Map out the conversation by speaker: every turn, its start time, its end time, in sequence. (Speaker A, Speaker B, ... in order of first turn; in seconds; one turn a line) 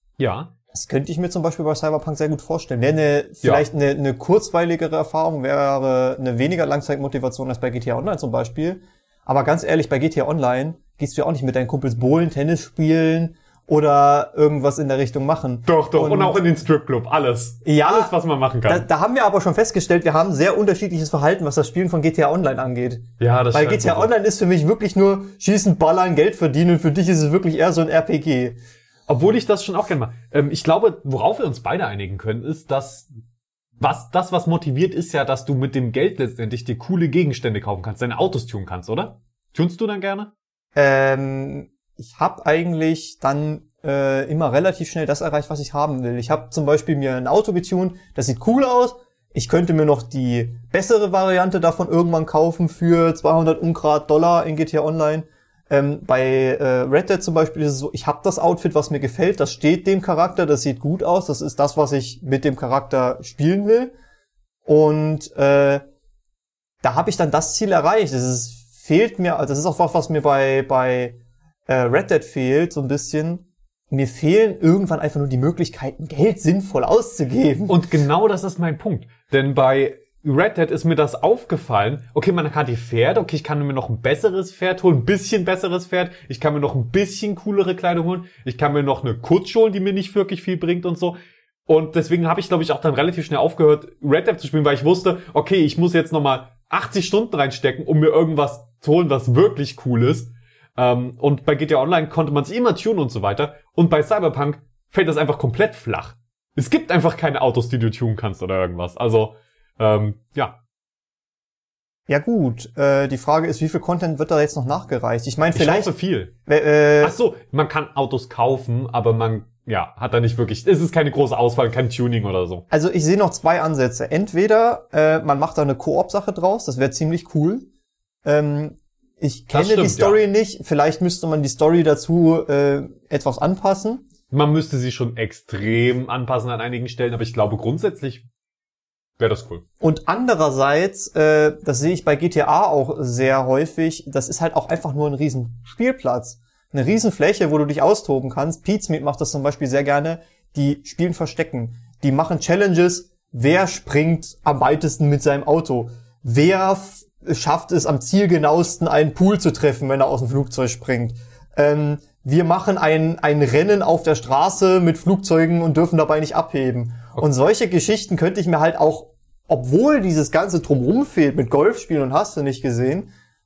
Speaker A: 0.2-0.5
Speaker B: 0.7-16.4
Speaker A: 15.7-18.9
Speaker B: 17.6-18.1
Speaker B: 18.7-28.6
Speaker A: 23.2-24.1
Speaker A: 29.1-33.1
Speaker A: 33.8-40.3
Speaker B: 40.7-63.9
Speaker B: 64.7-65.8
Speaker B: 66.8-71.2
Speaker B: 71.7-77.8
Speaker A: 77.7-110.6
Speaker B: 112.1-115.9
Speaker A: 115.5-116.3
Speaker B: 116.5-117.2
Speaker A: 117.0-122.6
Speaker B: 122.7-127.7
Speaker B: 128.2-134.1
Speaker A: 129.5-130.2
Speaker A: 134.3-138.2
Speaker A: 139.2-139.6
Speaker B: 139.8-173.1